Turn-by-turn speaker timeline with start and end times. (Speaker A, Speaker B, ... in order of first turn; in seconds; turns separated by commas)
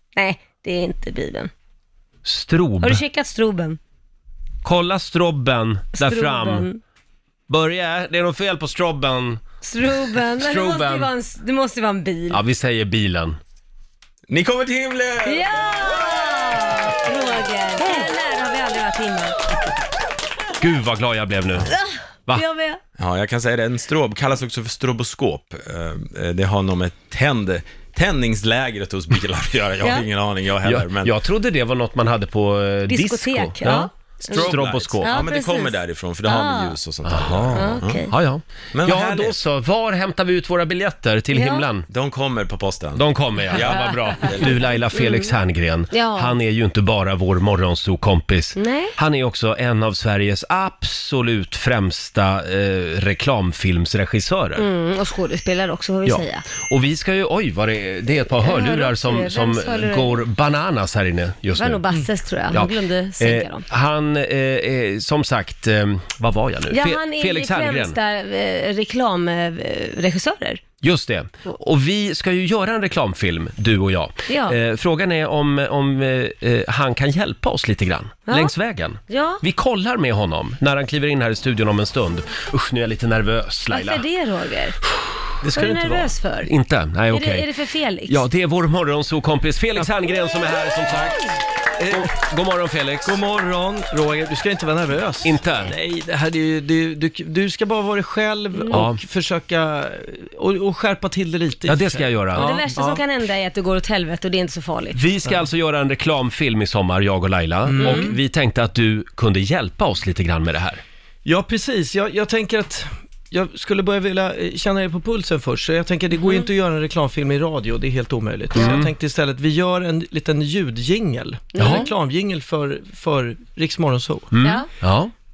Speaker A: 0.1-1.5, Speaker B: 2.2-3.0, Speaker A: 2.8-3.8, Speaker B: 4.6-6.7, Speaker A: 6.0-6.8, Speaker B: 7.5-9.4, Speaker A: 9.6-12.4, Speaker B: 10.4-11.1, Speaker B: 12.3-13.4, Speaker C: 14.3-16.6, Speaker A: 15.2-19.4, Speaker B: 20.6-21.7, Speaker A: 21.7-22.8, Speaker C: 23.0-31.1, Speaker A: 29.8-30.1, Speaker B: 30.6-35.1, Speaker A: 32.9-34.5, Speaker C: 34.2-38.1, Speaker A: 35.0-36.8, Speaker B: 37.0-41.9, Speaker A: 37.5-38.1, Speaker C: 38.7-39.4, Speaker A: 41.3-41.6, Speaker C: 41.9-44.8, Speaker B: 43.0-54.6, Speaker A: 43.6-44.2, Speaker A: 44.9-45.3, Speaker A: 45.9-46.4, Speaker A: 48.5-48.9, Speaker A: 54.6-56.4, Speaker B: 56.0-61.8, Speaker A: 58.4-60.2, Speaker A: 61.6-63.6, Speaker B: 62.5-68.0, Speaker A: 66.7-70.6, Speaker B: 70.8-84.0, Speaker A: 74.3-74.6, Speaker A: 79.1-79.4, Speaker A: 83.7-84.8, Speaker D: 85.4-86.1, Speaker A: 85.5-86.5, Speaker B: 86.4-87.5, Speaker A: 87.1-88.2, Speaker B: 88.1-91.2, Speaker D: 91.8-92.1, Speaker B: 91.9-93.2, Speaker D: 93.0-103.0, Speaker B: 95.2-95.7, Speaker B: 98.7-99.0, Speaker B: 101.7-102.5, Speaker A: 102.3-105.0, Speaker B: 104.9-110.8, Speaker D: 107.7-108.2, Speaker A: 107.8-108.2, Speaker D: 111.2-124.3, Speaker A: 116.2-116.5, Speaker B: 118.5-118.9, Speaker A: 121.5-121.9, Speaker B: 121.6-121.9, Speaker B: 124.3-125.1, Speaker A: 124.4-124.7